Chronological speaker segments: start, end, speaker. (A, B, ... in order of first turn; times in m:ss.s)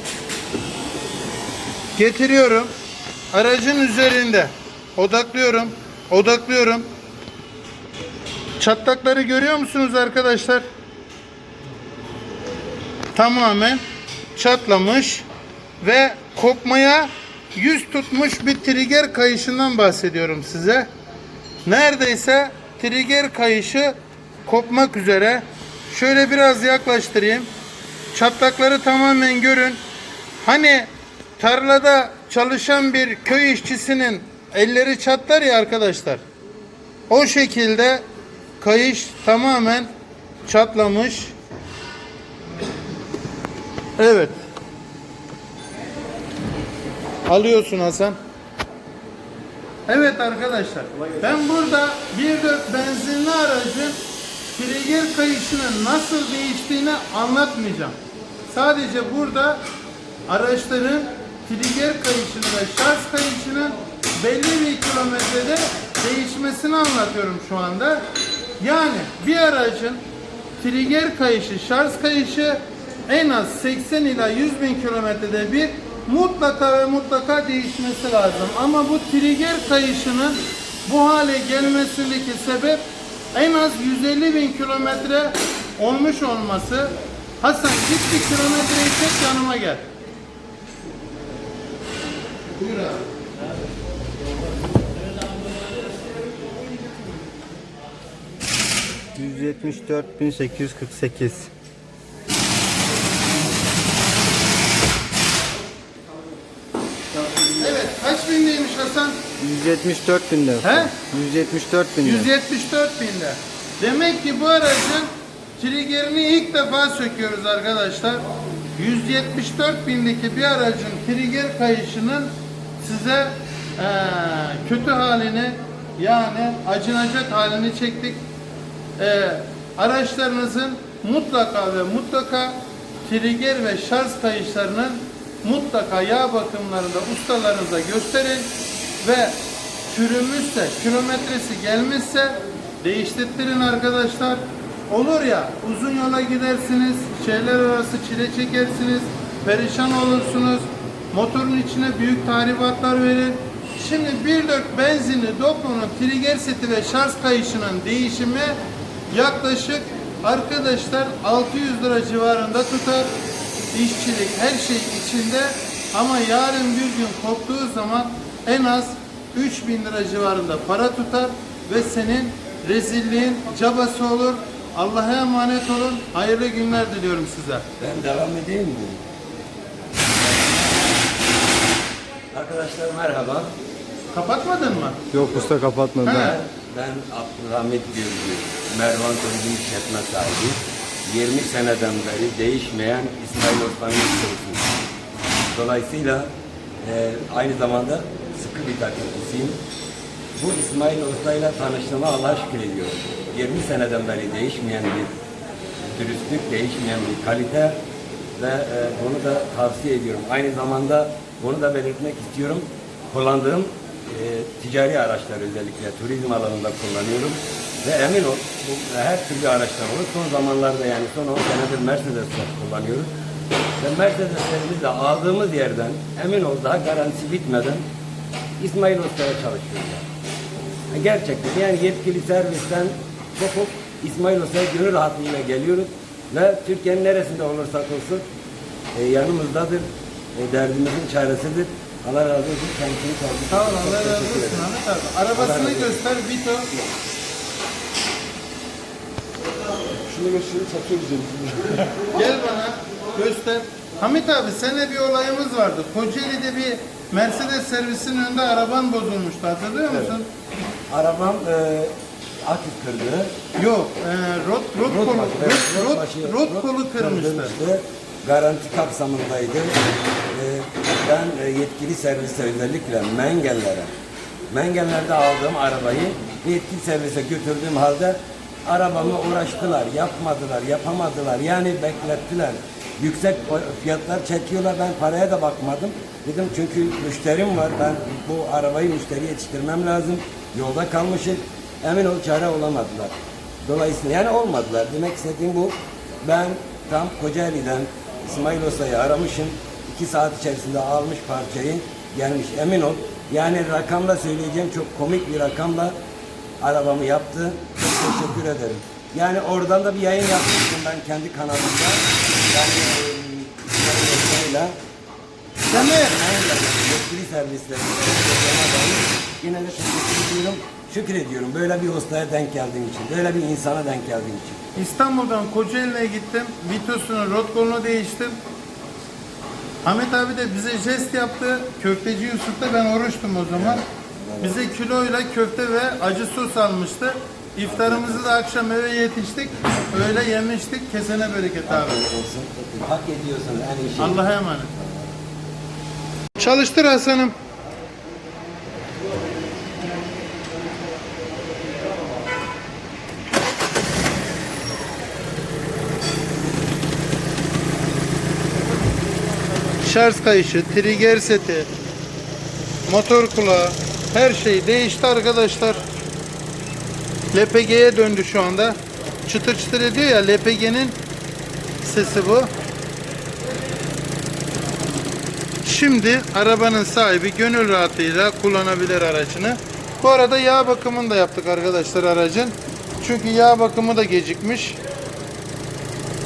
0:02.0-0:02.7 A
0:03.3-0:06.9 A
0:08.6-0:10.6 A
0:13.2-0:13.8 A
0:14.4-0:15.3 A
0:15.8-0:20.9 A
0:21.6-0:27.5 A
0:28.1-0:29.8 A
0:30.4-0:36.2 A
0:37.1-0:38.0 A
0:38.6-0:39.9 A
0:40.5-0:41.3 A
0:44.0-0:44.4 A
0:47.3-0:48.2 A
0:49.9-0:54.0 A
0:54.5-0:58.0 A
0:58.5-0:59.6 A
1:00.3-1:08.0 A
1:08.6-1:10.0 A
1:10.6-1:22.8 A
1:23.3-1:29.9 A
1:32.6-1:33.0 A
1:39.2-1:41.5 B
1:47.5-1:49.2 A
1:49.4-1:52.3 B
1:50.6-1:51.0 A
1:52.0-1:58.2 A
1:58.8-2:08.2 A
2:09.0-2:19.4 A
2:19.9-2:38.6 A
2:39.1-2:43.1 A
2:43.7-2:57.6 A
2:57.8-2:59.0 C
3:02.3-3:03.5 C
3:04.1-3:05.0 A
3:05.1-3:06.3 B
3:05.1-3:05.5 C
3:06.0-3:06.4 A
3:06.1-3:14.7 C
3:15.5-3:16.3 C
3:16.8-3:19.6 C
3:20.4-3:25.2 C
3:25.8-3:27.8 C
3:28.4-3:43.1 C
3:43.8-3:47.8 C
3:48.6-3:50.1 C
3:50.9-3:58.2 C
3:58.9-4:04.7 C
4:03.5-4:06.7 A
4:05.3-4:06.0 C
4:10.1-4:11.8 C
4:12.1-4:20.3 A
4:20.9-4:21.9 C
4:22.5-4:23.3 C
4:23.6-4:27.5 A
4:24.8-4:29.8 C
4:30.3-4:33.9 C
4:34.5-5:06.0 C
5:06.6-5:14.7 C
5:15.7-5:24.7 C
5:15.7-5:16.2 A
5:24.8-5:28.4 A
5:29.8-5:33.8 A
5:33.6-5:34.7 C
5:34.4-5:42.0 A
5:37.7-5:38.4 C
5:41.7-5:45.1 C
5:44.0-5:44.7 A
5:46.4-5:47.3 A
5:59.8-6:01.7 A
6:02.9-6:05.8 A
6:07.3-6:11.0 A
6:11.8-6:12.5 A
6:15.6-6:24.8 A